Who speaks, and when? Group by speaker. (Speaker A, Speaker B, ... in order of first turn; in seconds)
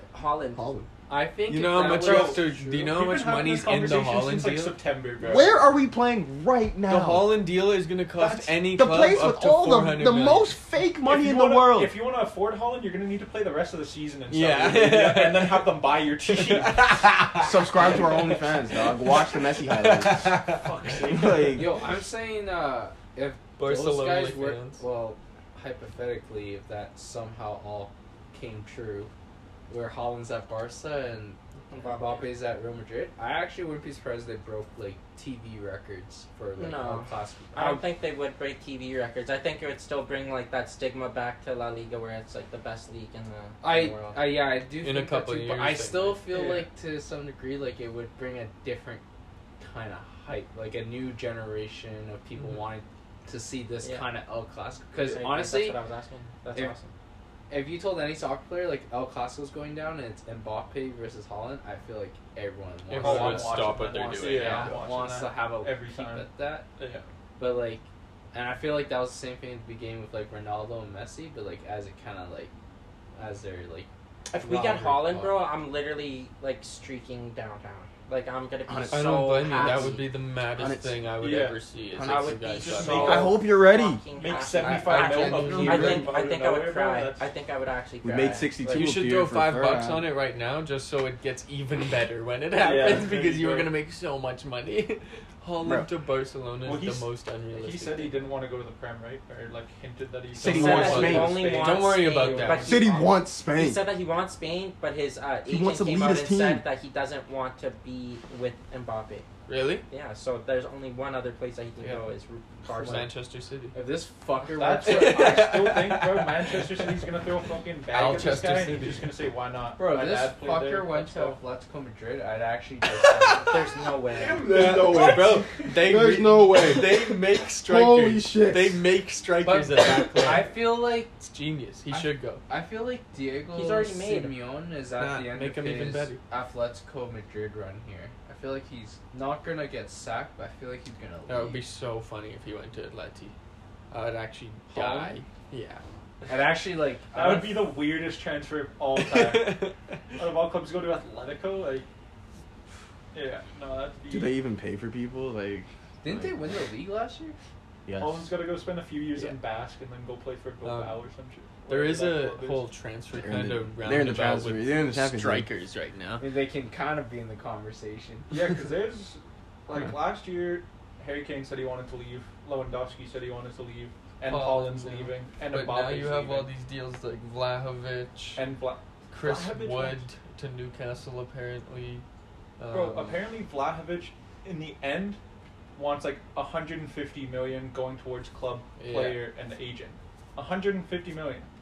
Speaker A: 0.1-0.7, 31.7-32.3, 36.6-44.3, 53.8-54.1, 55.0-56.9, 74.3-80.0, 82.0-88.6, 100.5-109.2, 109.9-113.1, 123.4-124.5, 133.5-134.3
Speaker B: 0.5-0.9, 5.2-7.4, 8.6-11.9, 17.4-20.4, 20.9-21.7, 78.7-80.0, 80.5-81.0, 81.9-84.0, 88.0-90.1, 95.6-95.9, 100.4-101.5, 102.7-103.8, 105.5-106.6, 124.1-128.8, 154.1-156.4, 157.8-158.3, 163.2-165.5
Speaker C: 1.1-2.9, 21.5-29.1, 29.7-37.8, 43.6-49.0, 49.6-55.8, 57.5-66.7, 67.4-72.5, 73.2-73.9, 74.4-75.4, 85.3-85.6, 112.7-113.1, 113.7-115.5, 119.8-123.6, 129.4-131.1, 131.9-141.6, 144.7-145.2, 146.3-147.8, 156.0-157.3, 166.2-168.3
Speaker D: 1.5-4.8, 6.9-10.6, 14.3-21.5, 23.6-24.8, 44.8-46.2, 52.4-52.7, 62.9-64.7, 78.9-83.3, 84.6-86.1, 88.7-98.1, 100.3-102.8, 109.5-109.8, 112.7-113.8, 114.8-117.0, 117.9-119.1, 122.9-123.5, 124.4-132.4, 135.0-136.2, 141.3-143.3, 143.9-145.8, 148.9-150.0, 160.6-161.0, 161.7-166.2, 174.2-178.4, 179.1-182.0, 182.6-183.3, 188.8-189.3
Speaker E: 1.9-5.7, 8.2-8.5, 11.0-17.1, 20.5-21.6, 46.3-46.7, 63.0-67.0, 81.2-81.6, 82.6-83.4, 84.1-87.3, 92.5-93.7, 96.6-102.9, 114.5-121.4, 147.1-151.9, 153.1-154.3, 158.0-162.7, 168.3-176.5, 178.3-180.0, 182.7-185.2, 185.7-191.5